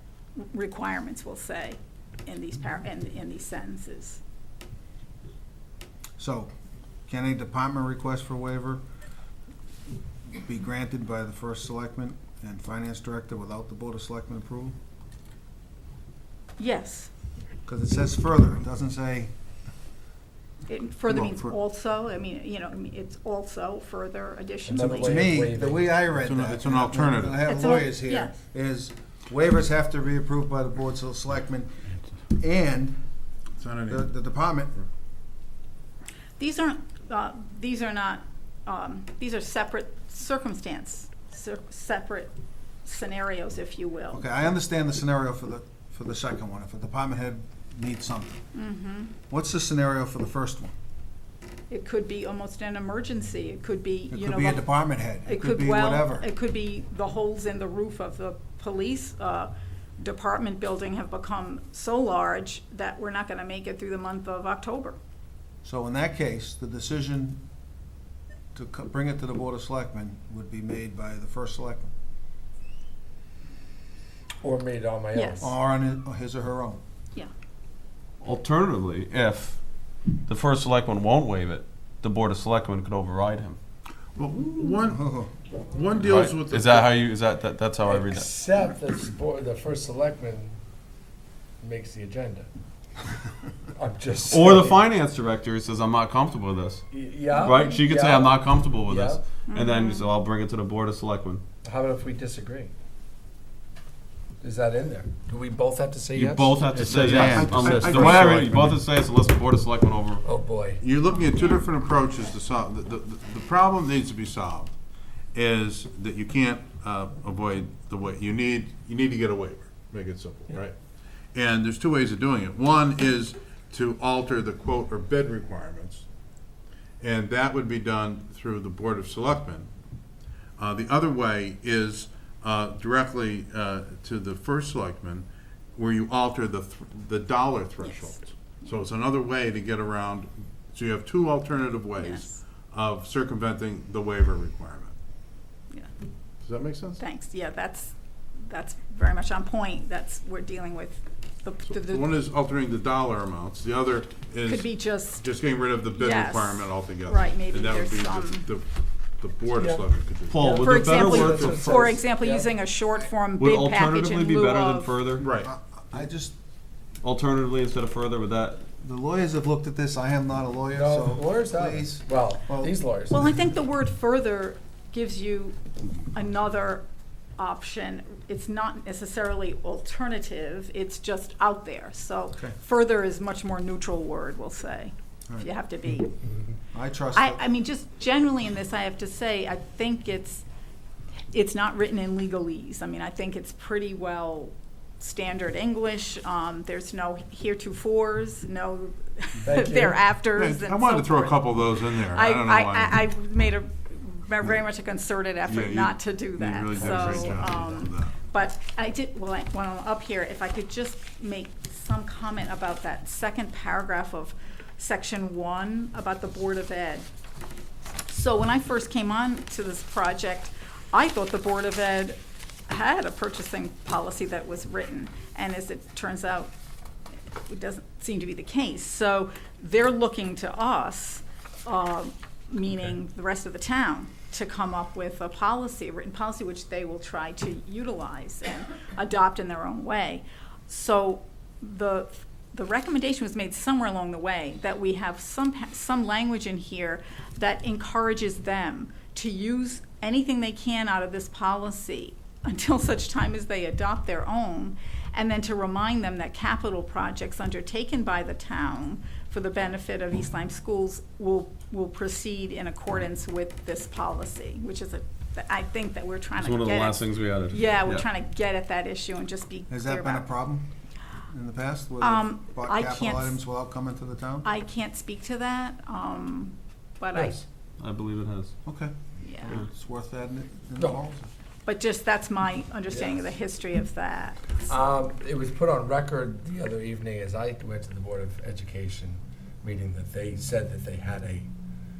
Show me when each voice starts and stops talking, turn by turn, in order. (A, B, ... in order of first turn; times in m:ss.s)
0:00.4-0:04.2 A
0:06.2-0:06.5 B
0:07.1-0:08.8 B
0:10.3-0:14.8 B
0:16.6-0:17.1 A
0:17.6-0:19.3 B
0:20.7-0:25.1 A
0:21.1-0:21.6 B
0:24.6-0:26.2 C
0:24.8-0:31.7 B
0:26.2-0:27.4 D
0:27.4-0:28.3 A
0:32.3-0:33.0 B
0:33.6-0:34.0 D
0:33.9-0:34.8 B
0:36.4-0:42.3 A
0:42.8-0:44.2 A
0:44.1-0:48.4 B
0:48.5-0:49.1 A
0:49.3-0:50.7 B
0:51.7-0:54.7 A
0:54.1-0:56.2 B
0:55.2-1:05.0 A
1:05.6-1:07.4 B
1:08.5-1:11.9 B
1:14.4-1:15.5 C
1:15.1-1:15.4 A
1:15.4-1:16.8 B
1:18.2-1:19.6 E
1:20.3-1:23.6 E
1:24.2-1:25.0 D
1:24.8-1:25.3 B
1:25.6-1:26.9 D
1:26.0-1:28.3 E
1:27.8-1:30.6 C
1:31.6-1:32.5 C
1:33.8-1:34.8 C
1:34.3-1:36.8 E
1:36.9-1:39.2 C
1:37.4-1:37.6 A
1:37.4-1:41.4 E
1:39.5-1:40.1 A
1:41.6-1:42.7 C
1:44.4-1:48.1 C
1:46.1-1:50.2 E
1:46.9-1:48.5 B
1:47.2-1:48.6 D
1:50.2-1:50.8 C
1:50.8-1:54.7 D
1:55.3-2:00.8 D
2:01.3-2:06.0 D
2:07.0-2:09.7 D
2:10.6-2:24.9 D
2:17.8-2:18.6 A
2:22.0-2:22.4 A
2:26.4-2:27.0 D
2:27.0-2:32.1 A
2:31.7-2:38.7 D
2:34.4-2:35.2 A
2:36.0-2:38.5 A
2:39.2-2:41.7 D
2:39.5-2:39.8 C
2:40.3-2:41.7 E
2:40.4-2:42.6 C
2:40.6-2:45.0 A
2:43.4-2:45.3 E
2:45.2-2:45.5 D
2:45.4-2:46.3 B
2:47.0-2:48.6 E
2:48.8-2:52.7 B
2:50.7-2:53.3 C
2:53.1-2:56.8 A
2:57.4-3:06.1 A
3:06.7-3:07.4 B
3:07.1-3:10.4 A
3:11.3-3:37.0 A
3:19.4-3:20.1 C
3:20.3-3:23.0 D
3:25.5-3:28.2 D
3:38.1-3:42.2 A
3:42.7-3:46.5 A
3:47.4-4:30.2 A
4:26.4-4:28.0 E
4:29.7-4:30.7 B
4:31.3-4:34.5 B
4:32.0-4:33.4 A
4:34.4-4:37.4 A
4:37.8-4:38.5 E
4:38.6-4:38.9 B
4:39.2-4:39.6 A
4:39.4-4:41.3 B
4:40.8-4:41.0 C
4:41.6-4:44.7 A
4:42.9-4:43.1 C
4:44.6-4:51.5 C